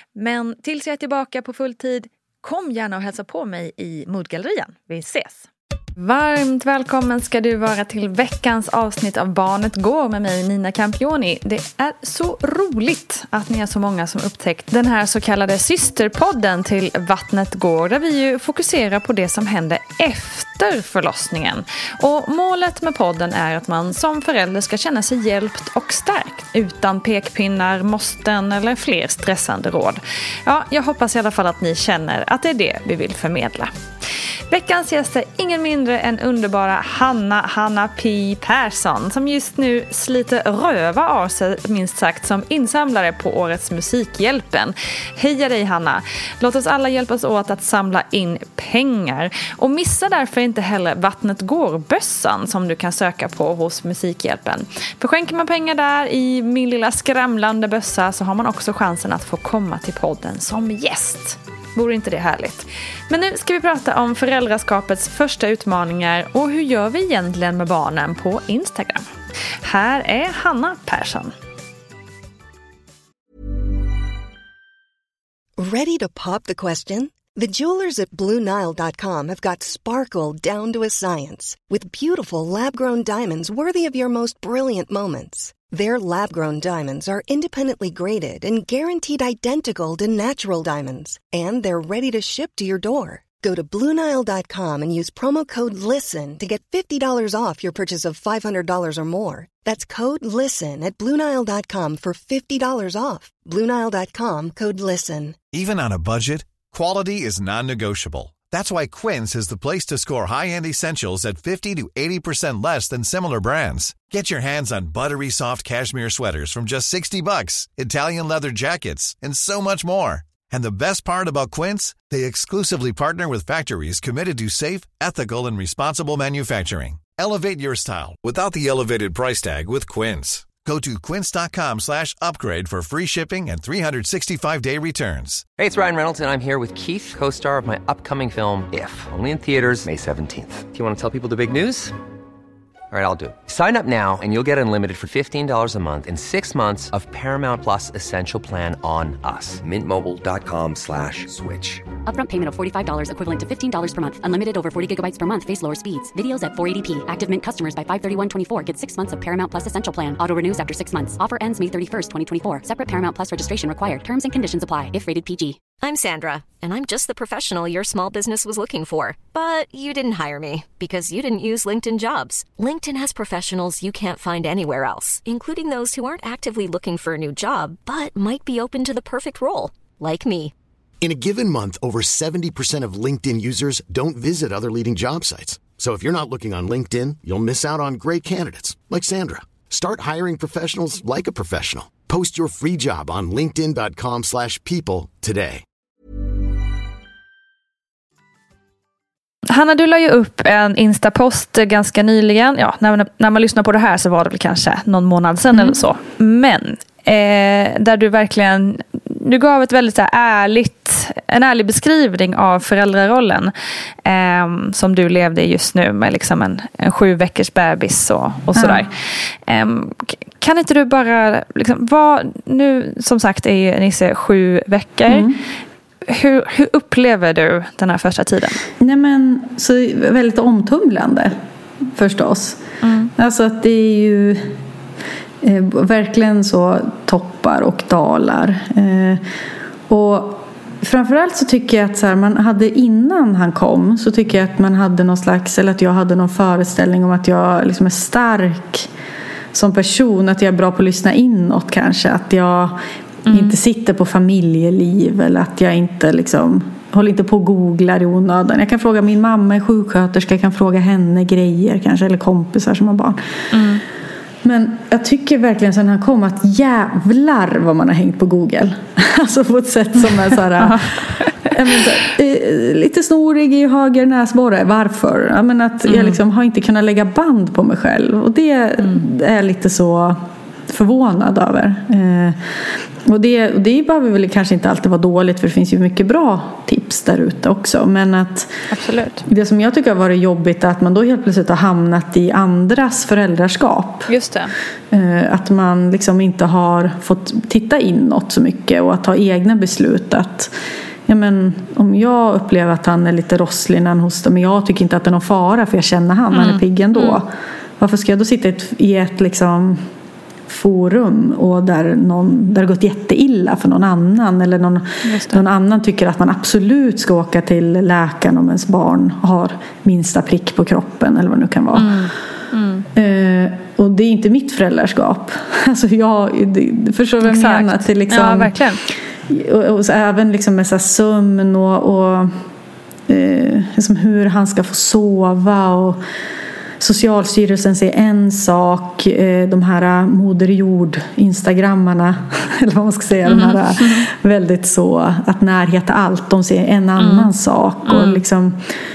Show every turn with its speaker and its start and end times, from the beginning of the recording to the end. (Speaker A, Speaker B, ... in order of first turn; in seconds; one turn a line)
Speaker A: 0.1-5.5
Speaker A: 6.0-33.7
Speaker A: 34.5-69.1
Speaker A: 69.6-71.3
Speaker B: 75.6-105.4
Speaker C: 105.5-135.4
Speaker D: 135.6-141.9
Speaker D: 142.9-151.8
Speaker E: 152.0-165.6
Speaker F: 165.8-180.5
Speaker G: 181.0-195.6
Speaker A: 199.5-213.5
Speaker A: 214.1-218.9
Speaker H: 218.6-218.9
Speaker A: 219.4-225.3
Speaker H: 225.1-225.4
Speaker A: 226.1-228.6
Speaker H: 228.8-231.4
Speaker H: 231.9-232.6
Speaker A: 232.8-233.1
Speaker H: 233.2-234.6
Speaker H: 235.4-239.2
Speaker H: 239.9-248.9
Speaker H: 249.5-263.2
Speaker A: 253.3-253.6
Speaker A: 263.5-263.8
Speaker H: 264.4-288.6
Speaker A: 270.6-271.4
Speaker A: 275.9-276.2
Speaker A: 288.7-289.2
Speaker H: 289.2-294.1
Speaker A: 294.1-294.5
Speaker H: 294.9-300.5
Speaker H: 301.1-309.8
Speaker A: 306.3-307.2
Speaker H: 310.5-322.1
Speaker A: 315.0-315.4
Speaker A: 321.7-322.9
Speaker H: 322.9-332.4
Speaker A: 327.2-328.8
Speaker H: 333.1-336.0
Speaker H: 336.8-348.6
Speaker A: 343.2-344.1
Speaker A: 347.0-347.3
Speaker A: 347.9-348.2